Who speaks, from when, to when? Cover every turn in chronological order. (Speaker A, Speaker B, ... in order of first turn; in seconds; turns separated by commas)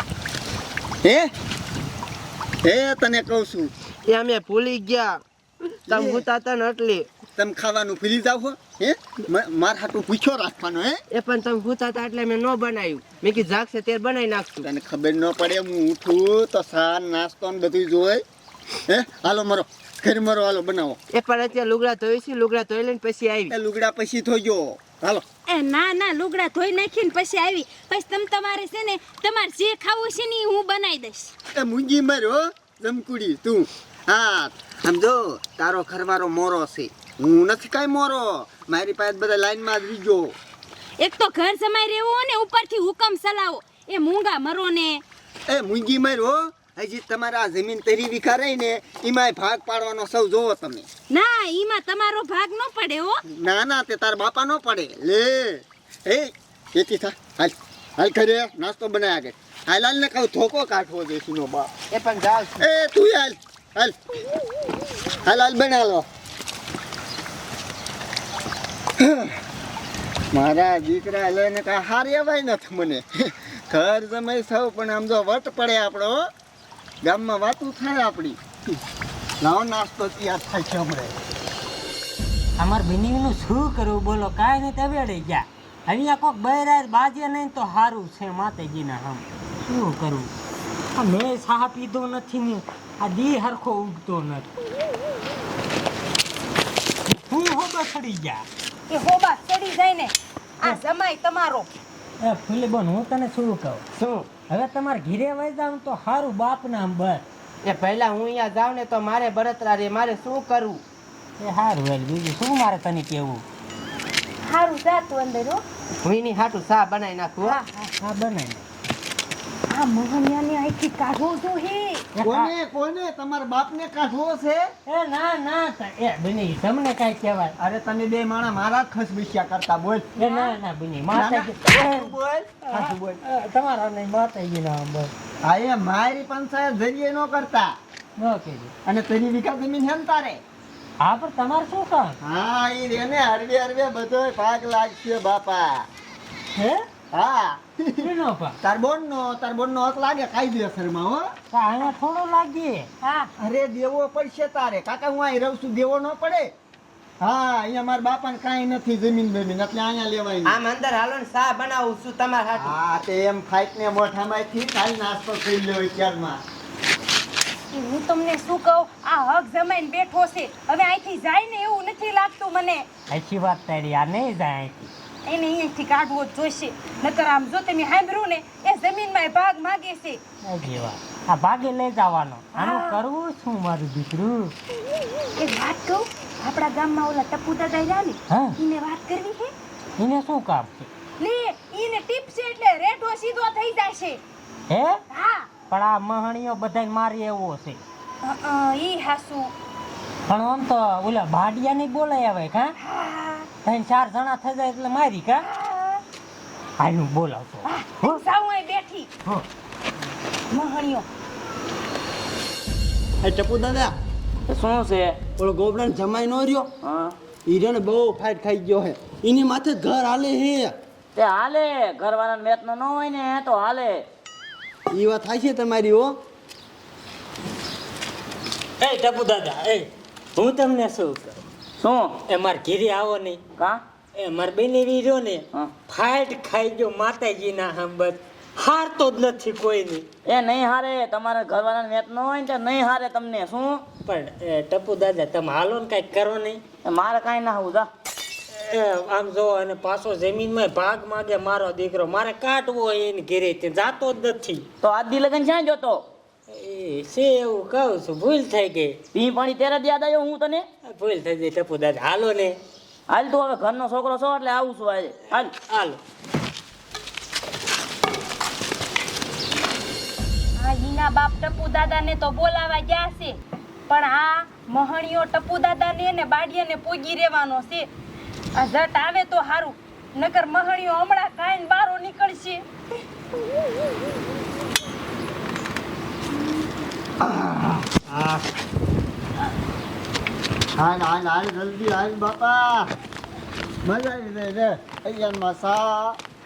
Speaker A: 1.0-1.3, Speaker A: 2.6-3.7, Speaker B: 4.1-5.2, Speaker B: 5.9-7.1, Speaker A: 5.9-6.2, Speaker A: 7.3-11.0, Speaker B: 11.1-14.7, Speaker A: 14.6-18.2, Speaker A: 18.9-21.0, Speaker B: 21.1-23.5, Speaker A: 23.5-25.2, Speaker C: 25.5-31.3, Speaker A: 31.6-40.4, Speaker C: 41.0-45.0, Speaker A: 45.5-50.9, Speaker C: 51.1-53.2, Speaker A: 53.3-61.7, Speaker B: 61.9-62.7, Speaker A: 62.6-64.0, Speaker A: 65.2-66.1, Speaker A: 69.0-69.4, Speaker A: 70.3-76.3, Speaker A: 77.0-78.4, Speaker A: 79.4-81.1, Speaker D: 82.6-90.3, Speaker D: 91.0-94.5, Speaker D: 97.1-98.5, Speaker C: 98.9-101.7, Speaker D: 102.2-103.8, Speaker B: 104.0-104.3, Speaker D: 104.5-107.2, Speaker B: 107.6-110.8, Speaker D: 111.4-113.4, Speaker C: 114.5-115.6, Speaker B: 116.0-117.6, Speaker C: 117.4-117.9, Speaker D: 118.0-118.6, Speaker C: 119.7-122.1, Speaker D: 122.2-122.5, Speaker A: 122.2-124.7, Speaker D: 124.9-127.5, Speaker A: 127.6-130.1, Speaker D: 130.2-132.1, Speaker A: 131.1-133.2, Speaker D: 132.7-135.1, Speaker A: 135.4-137.8, Speaker D: 138.2-138.7, Speaker A: 138.8-140.4, Speaker D: 141.0-142.2, Speaker A: 142.2-145.9, Speaker D: 146.5-146.8, Speaker A: 147.1-148.1, Speaker D: 148.0-148.6, Speaker A: 148.6-151.3, Speaker D: 151.5-152.9, Speaker C: 153.0-153.3, Speaker A: 153.4-156.5, Speaker A: 157.2-160.6, Speaker B: 160.4-162.7, Speaker A: 162.6-166.4, Speaker C: 167.7-172.9, Speaker D: 173.1-174.9, Speaker C: 175.2-180.2, Speaker D: 180.4-184.6, Speaker C: 182.6-182.9, Speaker C: 185.4-189.5, Speaker D: 188.3-188.6, Speaker D: 190.0-190.9, Speaker C: 191.2-194.2, Speaker D: 194.7-195.0, Speaker C: 195.1-195.5, Speaker D: 195.7-197.8, Speaker C: 198.2-199.5, Speaker D: 200.3-202.8, Speaker C: 202.8-203.5, Speaker D: 203.6-205.5, Speaker C: 205.5-206.0, Speaker D: 206.8-208.2, Speaker C: 207.7-209.1, Speaker C: 210.5-211.1, Speaker A: 213.2-213.9, Speaker E: 214.5-215.2, Speaker A: 215.4-216.7, Speaker E: 216.8-217.2, Speaker A: 217.5-220.7, Speaker E: 221.2-224.0, Speaker A: 224.9-226.2, Speaker D: 228.8-231.4, Speaker E: 231.8-232.2, Speaker D: 232.3-233.4, Speaker D: 234.2-240.1, Speaker E: 240.2-243.8, Speaker D: 244.1-246.6, Speaker E: 246.8-247.9, Speaker D: 248.5-254.7, Speaker E: 254.8-256.1, Speaker D: 256.5-259.0, Speaker E: 259.1-260.7, Speaker D: 260.9-262.6, Speaker E: 263.1-265.5, Speaker D: 265.7-266.0, Speaker C: 270.6-277.9, Speaker C: 278.6-282.6, Speaker A: 287.2-288.5, Speaker A: 290.8-292.9, Speaker A: 293.9-296.2